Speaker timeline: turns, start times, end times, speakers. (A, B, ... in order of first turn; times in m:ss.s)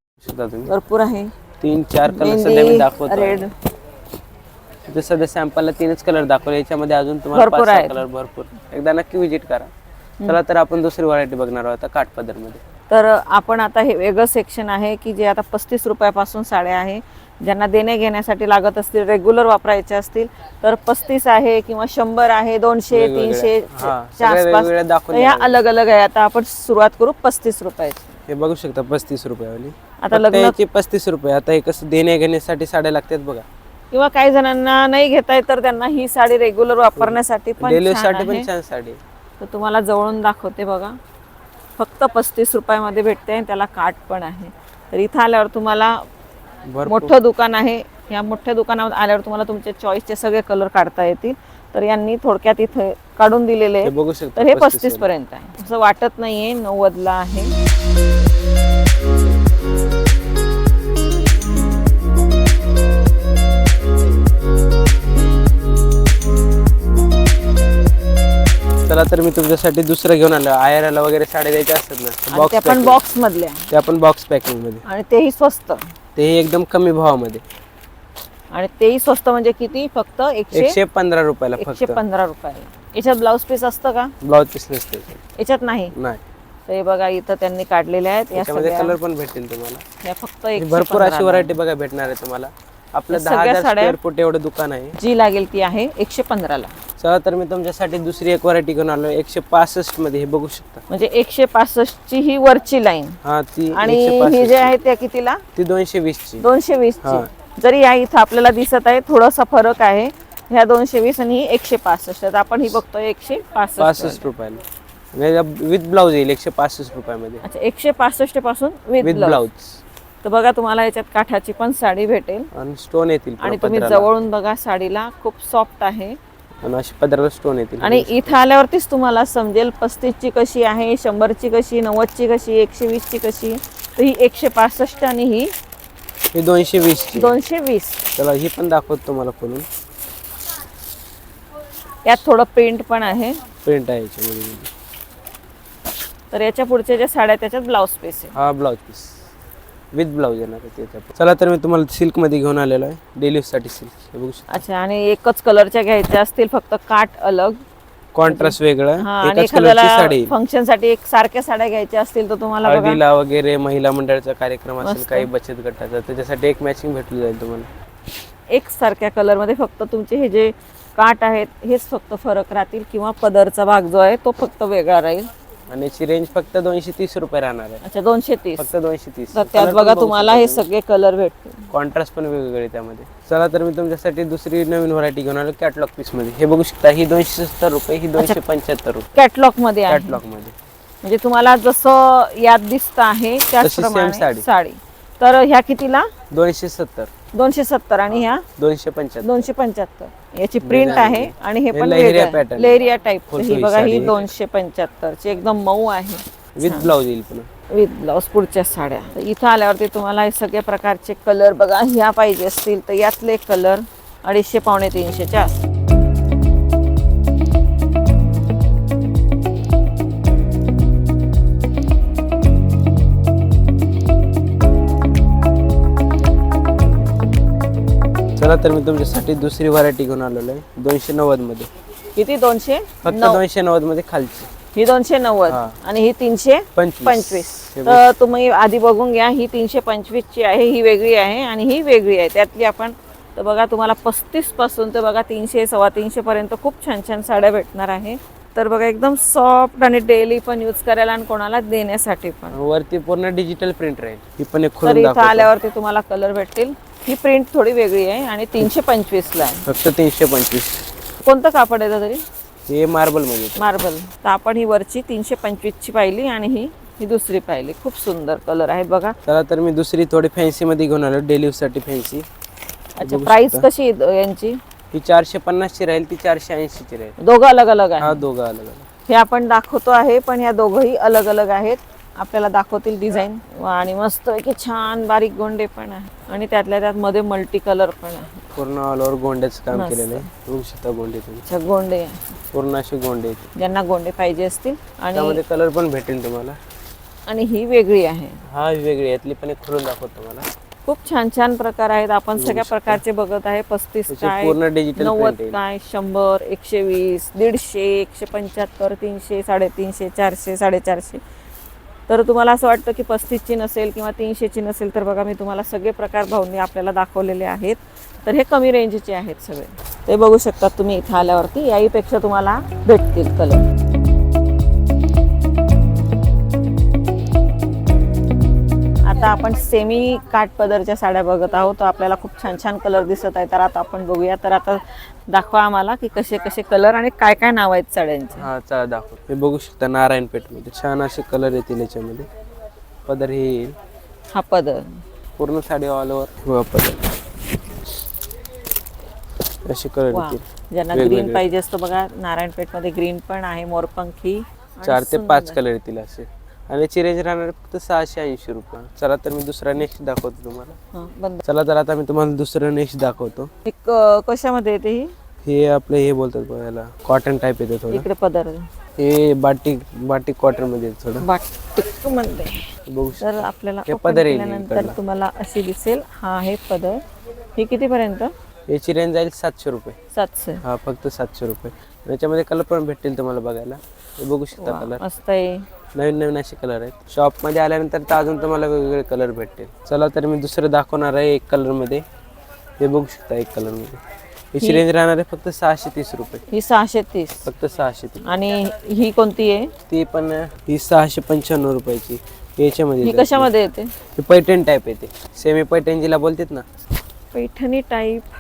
0:00.2-0:00.7 A
0:00.7-0:01.3 B
0:01.6-0:03.4 A
0:02.1-0:03.5 B
0:04.9-0:09.7 A
0:07.3-0:08.0 B
0:10.3-0:12.6 A
0:12.9-0:28.2 B
0:22.9-0:25.6 A
0:28.3-0:33.5 A
0:30.0-0:30.6 B
0:33.9-0:38.5 B
0:37.0-0:39.0 A
0:39.4-0:41.0 B
0:41.8-0:46.0 B
0:46.7-0:47.2 A
0:46.9-0:57.5 B
0:53.8-0:55.1 A
1:08.9-1:13.0 A
1:12.3-1:13.7 B
1:13.7-1:14.8 A
1:14.8-1:15.9 B
1:16.2-1:17.4 A
1:18.5-1:20.8 B
1:20.5-1:22.0 A
1:21.6-1:24.1 B
1:24.2-1:25.2 A
1:25.4-1:25.9 B
1:25.9-1:26.2 A
1:26.7-1:29.0 B
1:28.4-1:29.8 A
1:30.0-1:31.6 B
1:30.6-1:35.0 A
1:33.1-1:34.0 B
1:35.0-1:36.8 B
1:37.0-1:40.8 A
1:40.9-1:43.2 B
1:43.2-1:44.8 A
1:43.7-1:45.4 B
1:45.6-1:46.4 A
1:46.4-1:54.3 B
1:47.0-1:47.3 A
1:53.8-1:54.6 A
1:55.1-1:57.4 A
1:57.4-1:59.4 B
1:59.0-1:59.8 A
2:00.2-2:02.5 B
2:02.5-2:04.1 A
2:03.4-2:06.2 B
2:06.6-2:08.4 A
2:07.8-2:15.5 B
2:16.3-2:17.4 A
2:17.2-2:18.0 B
2:18.2-2:19.7 A
2:22.0-2:23.4 B
2:23.6-2:24.7 A
2:26.3-2:28.4 B
2:28.3-2:29.2 A
2:29.9-2:34.6 A
2:34.5-2:37.6 B
2:38.1-2:40.3 A
2:38.3-2:43.0 B
2:42.6-2:47.7 A
2:44.8-2:45.3 B
2:48.5-2:55.3 B
2:55.7-2:57.8 A
2:57.8-2:58.7 B
2:58.6-3:00.7 A
2:59.3-3:01.7 B
3:01.7-3:09.1 A
3:09.2-3:10.2 B
3:09.9-3:10.6 A
3:11.0-3:16.1 B
3:13.6-3:14.5 A
3:16.3-3:17.1 A
3:17.3-3:18.4 B
3:18.6-3:19.5 A
3:19.2-3:26.9 B
3:20.6-3:22.8 A
3:23.3-3:24.3 A
3:26.6-3:27.5 A
3:27.7-3:35.6 B
3:48.4-3:51.7 A
3:52.2-3:53.4 B
3:53.0-3:54.5 A
3:54.7-4:12.6 B
3:55.5-3:55.8 A
3:56.8-3:58.0 A
4:12.5-4:15.5 A
4:14.8-4:19.6 B
4:19.6-4:20.8 A
4:21.2-4:22.2 B
4:22.7-4:23.6 A
4:23.6-4:29.1 B
4:29.2-4:32.3 A
4:33.0-4:34.6 B
4:33.0-4:33.7 A
4:34.9-4:37.2 A
4:37.2-4:38.2 B
4:38.0-4:38.9 A
4:39.1-4:48.4 B
4:48.6-4:51.4 A
4:49.7-4:50.3 B
4:51.5-4:52.3 B
4:52.5-4:53.5 A
4:53.6-4:55.4 B
4:55.1-4:56.6 A
4:57.3-4:58.4 B
4:58.5-5:00.5 A
5:00.9-5:11.2 B
5:02.4-5:03.0 A
5:04.1-5:05.6 A
5:12.1-5:23.6 B
5:29.1-5:38.5 B
5:38.4-5:42.3 A
5:43.1-5:43.8 A
5:44.3-5:45.0 B
5:45.4-5:47.1 A
5:49.6-5:51.5 A
5:50.1-5:55.6 B
5:54.8-6:00.8 A
6:00.9-6:01.4 B
6:01.4-6:03.5 A
6:03.6-6:05.1 B
6:05.4-6:08.1 A
6:07.9-6:08.7 B
6:09.0-6:11.3 A
6:11.2-6:12.6 B
6:12.9-6:15.0 A
6:13.2-6:17.0 B
6:17.6-6:18.3 B
6:18.7-6:20.0 A
6:20.1-6:20.6 B
6:20.6-6:25.0 A
6:24.6-6:25.7 B
6:26.0-6:32.0 A
6:32.8-6:34.0 A
6:34.5-6:36.4 A
6:36.5-6:37.5 B
6:37.4-6:38.3 A
6:38.2-6:39.7 B
6:39.9-6:43.5 A
6:43.0-6:43.9 B
6:44.2-6:46.6 A
6:47.3-6:48.3 B